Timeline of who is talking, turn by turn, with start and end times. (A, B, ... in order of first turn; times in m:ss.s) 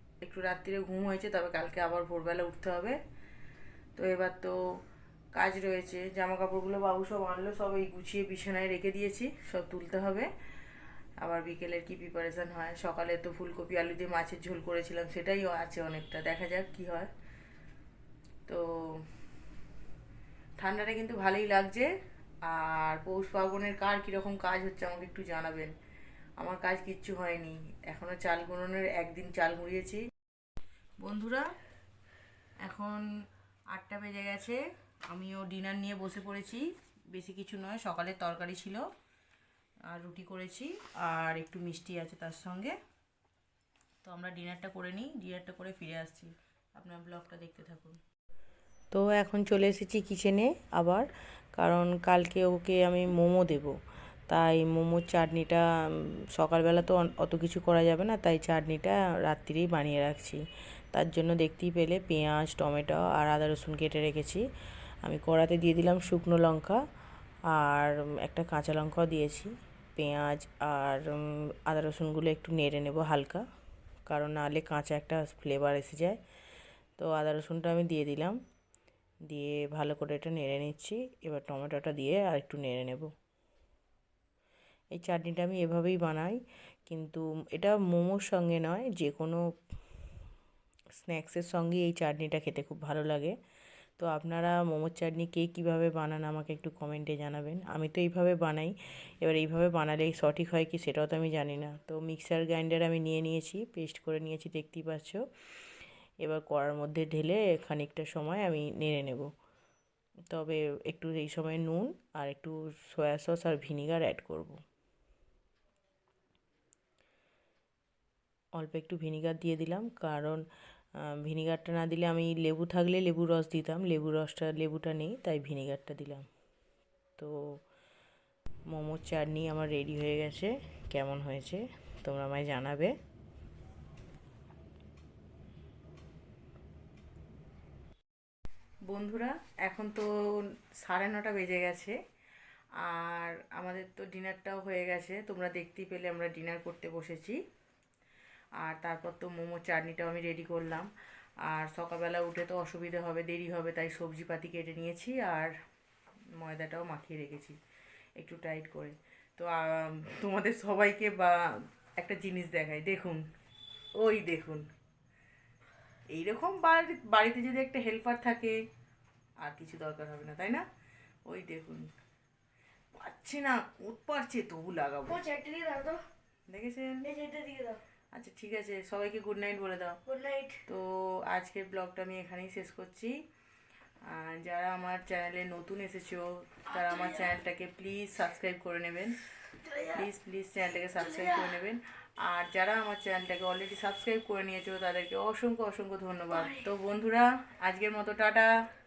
0:00.2-0:03.0 A
0:04.0-0:04.6 A
0:05.4-0:10.3 A
0:11.2-0:17.1 A
0:18.5-0:19.1 A
0:20.6-0:21.9 A
0:22.4-0:25.7 A
0:26.4-0:30.0 A
0:31.0-0:31.5 A
0:32.6-0:33.1 A
0:33.7-0:38.9 A
0:39.9-0:42.8 A
0:44.0-0:48.0 A
0:48.9-0:53.8 A
0:54.3-1:00.4 A
1:00.9-1:04.4 A
1:05.0-1:06.8 A
1:07.5-1:13.4 A
1:14.1-1:16.2 A
1:17.0-1:18.4 A
1:19.3-1:23.1 A
1:25.0-1:29.4 A
1:31.0-1:33.4 A
1:34.0-1:45.2 A
1:46.2-1:49.3 A
1:50.3-1:54.6 A
1:58.6-2:00.4 A
2:01.0-2:06.3 A
2:07.2-2:07.6 A
2:08.7-2:12.9 A
2:18.9-2:22.0 A
2:22.8-2:27.4 A
2:28.6-2:30.9 A
2:31.4-2:35.5 A
2:36.4-2:37.6 A
2:38.2-2:43.2 A
2:44.0-2:44.7 A
2:46.1-2:48.6 A
2:49.4-2:50.7 A
2:51.3-2:51.9 A
2:53.0-2:55.2 A
2:55.1-2:56.0 B
2:56.5-2:57.1 A
2:57.0-2:57.8 B
2:58.1-3:00.0 A
3:00.1-3:00.6 B
3:00.7-3:03.2 A
3:04.1-3:09.2 A
3:06.7-3:07.3 B
3:09.6-3:10.0 B
3:09.8-3:18.5 A
3:11.2-3:11.5 B
3:16.4-3:16.6 B